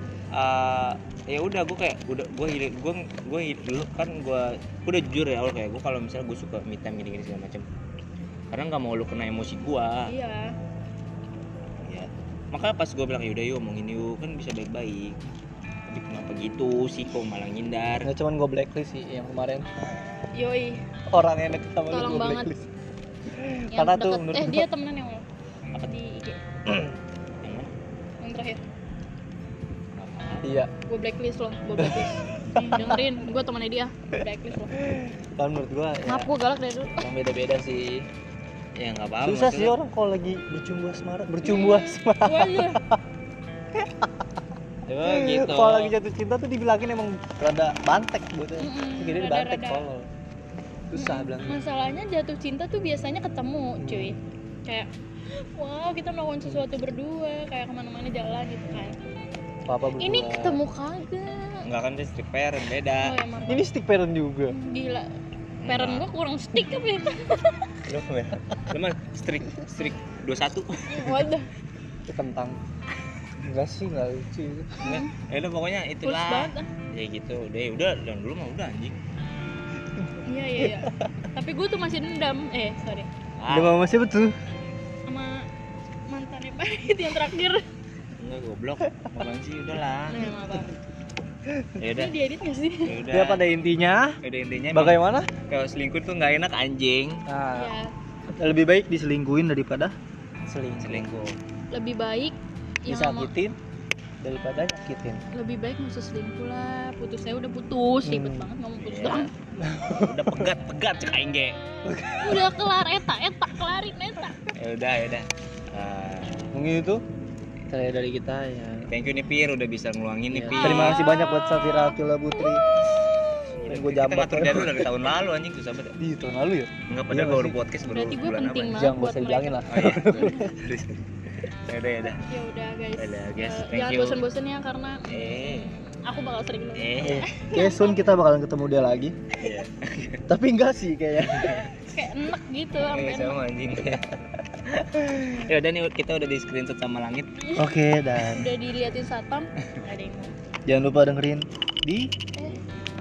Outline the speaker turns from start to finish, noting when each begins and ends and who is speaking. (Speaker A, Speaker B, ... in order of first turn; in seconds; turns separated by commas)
Speaker A: 0.3-7.7, Speaker A: 8.5-10.1, Speaker B: 10.1-10.6, Speaker A: 11.8-15.2, Speaker A: 15.9-18.1, Speaker C: 18.0-19.7, Speaker B: 20.3-20.8, Speaker C: 21.1-22.7, Speaker B: 21.9-22.6, Speaker C: 23.3-24.7, Speaker B: 23.7-25.3, Speaker B: 25.8-26.4, Speaker A: 27.4-27.7, Speaker B: 28.2-28.6, Speaker A: 30.0-30.5, Speaker C: 30.4-30.7, Speaker B: 30.8-34.8, Speaker C: 31.8-32.9, Speaker A: 32.8-33.4, Speaker C: 34.8-36.3, Speaker B: 36.0-37.0, Speaker C: 37.0-38.1, Speaker A: 38.8-39.7, Speaker C: 39.2-43.0, Speaker B: 41.4-42.8, Speaker C: 43.7-44.2, Speaker A: 44.9-45.9, Speaker C: 45.0-50.1, Speaker B: 48.6-49.9, Speaker C: 50.9-51.6, Speaker B: 51.0-59.0, Speaker C: 53.8-54.2, Speaker C: 56.4-56.7, Speaker C: 59.6-60.6, Speaker B: 60.0-61.6, Speaker A: 61.6-63.1, Speaker B: 63.0-63.6, Speaker C: 63.4-64.5, Speaker B: 64.5-65.1, Speaker A: 65.6-66.1, Speaker B: 65.7-67.7, Speaker A: 67.9-71.3, Speaker B: 70.9-71.5, Speaker C: 72.1-72.6, Speaker C: 73.4-74.9, Speaker B: 74.8-75.1, Speaker A: 74.8-79.0, Speaker B: 76.0-76.7, Speaker B: 80.2-83.1, Speaker A: 83.4-83.8, Speaker C: 83.5-84.4, Speaker B: 85.1-85.5, Speaker B: 86.1-87.6, Speaker A: 88.2-90.4, Speaker B: 90.1-90.8, Speaker A: 91.8-92.1, Speaker B: 91.9-92.9, Speaker A: 92.8-93.4, Speaker C: 93.1-94.2, Speaker A: 94.2-97.2, Speaker C: 94.7-95.3, Speaker C: 97.3-97.7, Speaker B: 97.5-97.9, Speaker C: 98.3-99.9, Speaker C: 100.5-101.1, Speaker A: 100.8-101.4, Speaker B: 101.7-103.3, Speaker C: 102.9-103.5, Speaker C: 104.2-105.2, Speaker B: 105.3-109.3, Speaker C: 108.0-108.5, Speaker A: 108.8-109.3, Speaker C: 109.6-110.5, Speaker A: 110.0-111.6, Speaker C: 111.8-112.5, Speaker B: 112.2-114.4, Speaker A: 114.4-116.5, Speaker C: 116.5-117.0, Speaker C: 117.7-118.9, Speaker A: 118.9-121.0, Speaker C: 120.3-122.7, Speaker B: 120.5-123.1, Speaker A: 123.4-126.0, Speaker C: 123.7-124.9, Speaker C: 126.0-127.6, Speaker A: 126.9-128.9, Speaker B: 127.9-130.5, Speaker C: 128.7-130.7, Speaker A: 129.7-131.0, Speaker A: 131.5-132.3, Speaker B: 132.2-138.1, Speaker A: 132.9-134.2, Speaker A: 135.1-135.7, Speaker A: 136.8-137.3, Speaker C: 137.0-139.5, Speaker A: 139.4-140.3, Speaker C: 140.3-141.7, Speaker A: 141.3-141.7, Speaker B: 141.4-143.4, Speaker A: 142.8-147.4, Speaker C: 147.6-148.5, Speaker B: 148.2-150.3, Speaker C: 150.7-152.1